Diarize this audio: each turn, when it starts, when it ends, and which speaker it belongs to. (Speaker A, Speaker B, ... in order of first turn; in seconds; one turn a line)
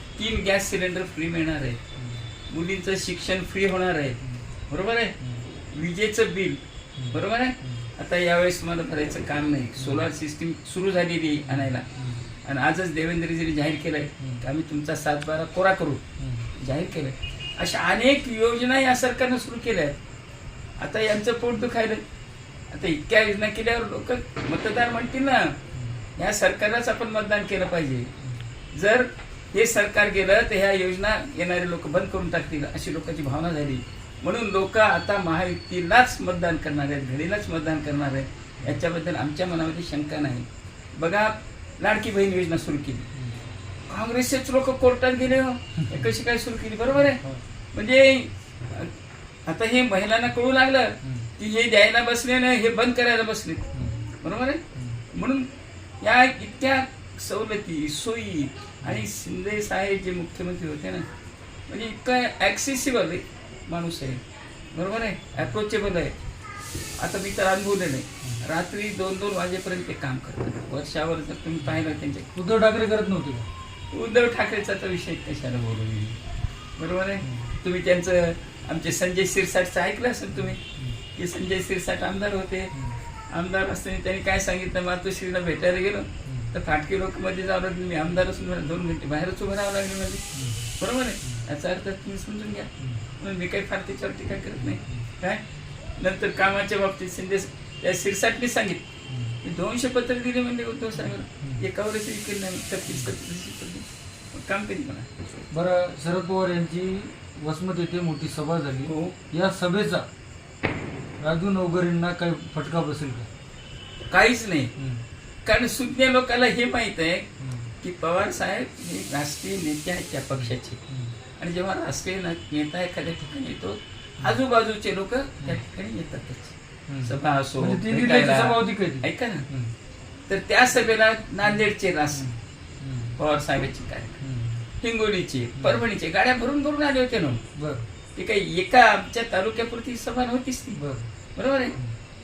Speaker A: 0.2-1.8
Speaker B: 2.0-2.3
Speaker A: 2.5-11.9
Speaker B: 5.2-5.5
Speaker B: 7.0-7.9
Speaker B: 9.8-10.1
Speaker B: 11.5-12.2
Speaker A: 12.4-16.0
Speaker B: 16.2-16.5
Speaker A: 16.6-20.0
Speaker A: 20.8-22.0
Speaker A: 22.7-25.6
Speaker B: 25.8-26.0
Speaker A: 26.2-28.1
Speaker A: 28.7-43.1
Speaker B: 43.1-43.4
Speaker A: 43.9-47.2
Speaker B: 45.8-46.1
Speaker B: 46.9-47.4
Speaker A: 47.7-48.9
Speaker A: 49.5-55.5
Speaker B: 51.0-51.3
Speaker B: 53.8-54.1
Speaker B: 54.8-55.0
Speaker A: 56.0-61.1
Speaker A: 61.7-64.2
Speaker A: 64.7-66.2
Speaker A: 67.0-72.3
Speaker B: 72.3-73.5
Speaker A: 73.9-76.2
Speaker A: 76.8-80.6
Speaker B: 77.2-77.5
Speaker B: 80.3-81.0
Speaker A: 81.2-82.7
Speaker A: 83.3-90.3
Speaker B: 86.3-86.6
Speaker B: 90.3-91.5
Speaker A: 90.8-95.4
Speaker B: 92.8-93.1
Speaker B: 94.6-95.1
Speaker A: 96.0-98.8
Speaker B: 99.1-99.4
Speaker A: 99.4-105.2
Speaker B: 101.4-101.7
Speaker B: 105.5-110.1
Speaker A: 108.9-109.2
Speaker B: 111.2-113.3
Speaker A: 114.1-114.7
Speaker B: 114.8-115.1
Speaker A: 115.5-117.3
Speaker B: 117.4-117.7
Speaker A: 117.8-120.8
Speaker B: 120.3-121.2
Speaker A: 121.4-129.5
Speaker B: 126.9-129.8
Speaker A: 130.3-132.3
Speaker B: 131.4-133.2
Speaker A: 133.2-134.2
Speaker B: 134.2-134.7
Speaker A: 134.8-137.4
Speaker B: 135.6-135.8
Speaker B: 137.6-137.9
Speaker A: 138.2-140.8
Speaker B: 140.8-141.1
Speaker A: 141.4-141.8